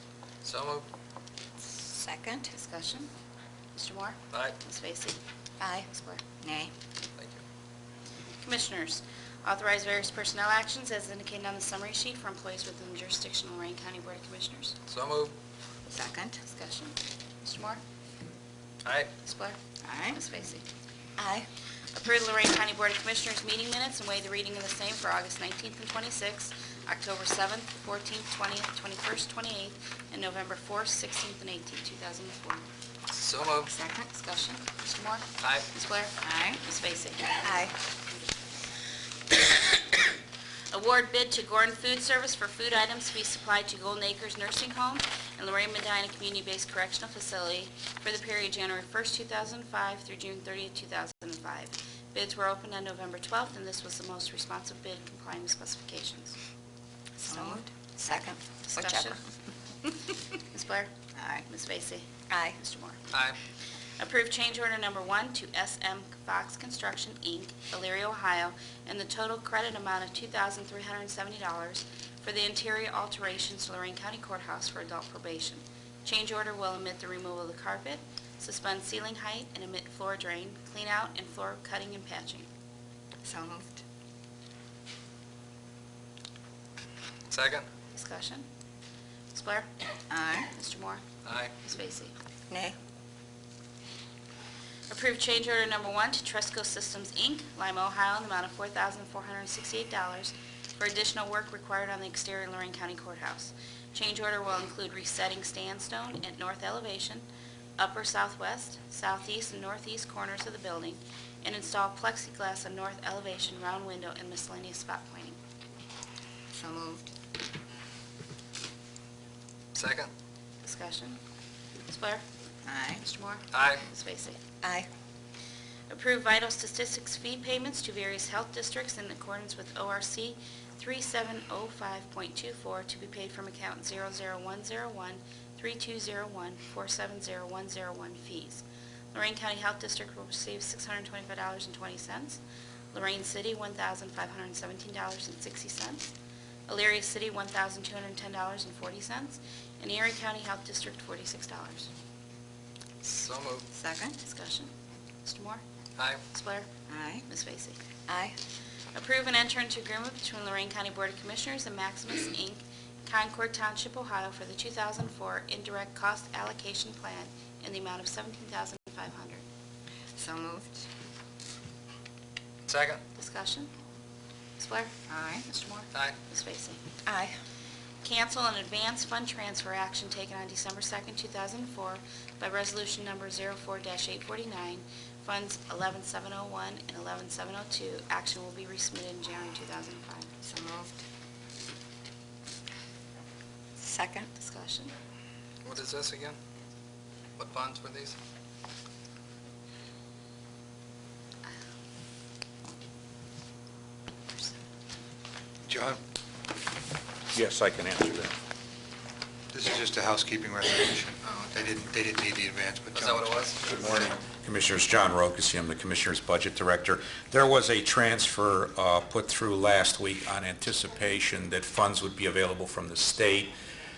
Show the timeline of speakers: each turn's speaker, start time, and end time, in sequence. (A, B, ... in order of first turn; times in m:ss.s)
0:00.4-0:00.8 A
0:01.7-0:02.5 B
0:02.5-0:03.1 C
0:03.7-0:05.2 C
0:04.3-0:04.6 A
0:05.6-0:05.9 B
0:05.9-0:06.2 C
0:06.4-0:06.7 B
0:07.2-0:07.4 A
0:08.4-0:14.8 C
0:14.9-0:15.3 A
0:15.9-0:16.4 B
0:16.4-0:17.8 C
0:18.8-0:19.1 A
0:19.2-0:19.6 C
0:19.8-0:20.2 B
0:20.1-0:20.6 C
0:21.2-0:21.4 B
0:21.9-0:32.6 C
0:33.1-0:33.7 A
0:33.7-0:34.0 B
0:34.0-0:37.4 C
0:36.2-0:36.6 B
0:37.4-0:37.7 B
0:40.7-0:56.4 C
0:57.2-0:59.2 B
0:57.3-0:59.2 C
1:00.3-1:00.9 C
1:01.1-1:01.4 B
1:01.4-1:03.1 C
1:02.3-1:02.6 B
1:03.1-1:03.4 A
1:04.0-1:22.5 C
1:23.2-1:23.8 B
1:27.3-1:27.7 A
1:27.9-1:28.5 C
1:29.3-1:29.7 C
1:30.1-1:30.5 B
1:30.5-1:31.0 C
1:31.2-1:31.5 A
1:31.6-1:32.1 C
1:32.5-1:32.8 B
1:34.9-1:47.2 C
1:47.8-1:55.4 C
1:56.5-1:57.1 B
1:59.7-2:00.1 A
2:00.6-2:01.2 C
2:01.9-2:02.2 C
2:02.6-2:03.0 B
2:03.0-2:04.4 C
2:03.5-2:03.8 A
2:04.6-2:04.9 B
2:05.9-2:22.4 C
2:22.9-2:26.1 C
2:26.7-2:31.9 C
2:33.0-2:33.7 A
2:33.7-2:34.2 B
2:34.2-2:34.7 C
2:35.2-2:35.6 C
2:36.3-2:36.7 C
2:36.9-2:37.2 B
2:37.2-2:37.8 C
2:38.1-2:38.3 B
2:38.9-2:49.4 C
2:50.2-2:50.8 B
2:52.7-2:53.0 A
2:53.1-2:53.7 C
2:54.6-2:56.8 C
2:55.1-2:55.4 B
2:57.0-2:57.4 B
2:58.0-3:10.3 C
3:10.4-3:11.0 B
3:13.8-3:14.3 B
3:14.3-3:14.9 C
3:15.6-3:16.4 A
3:17.4-3:18.2 A
3:25.6-3:26.0 D
3:27.3-3:28.3 E
3:29.5-3:34.2 D
3:31.2-3:31.7 A
3:32.9-3:33.8 A
3:34.2-3:43.5 E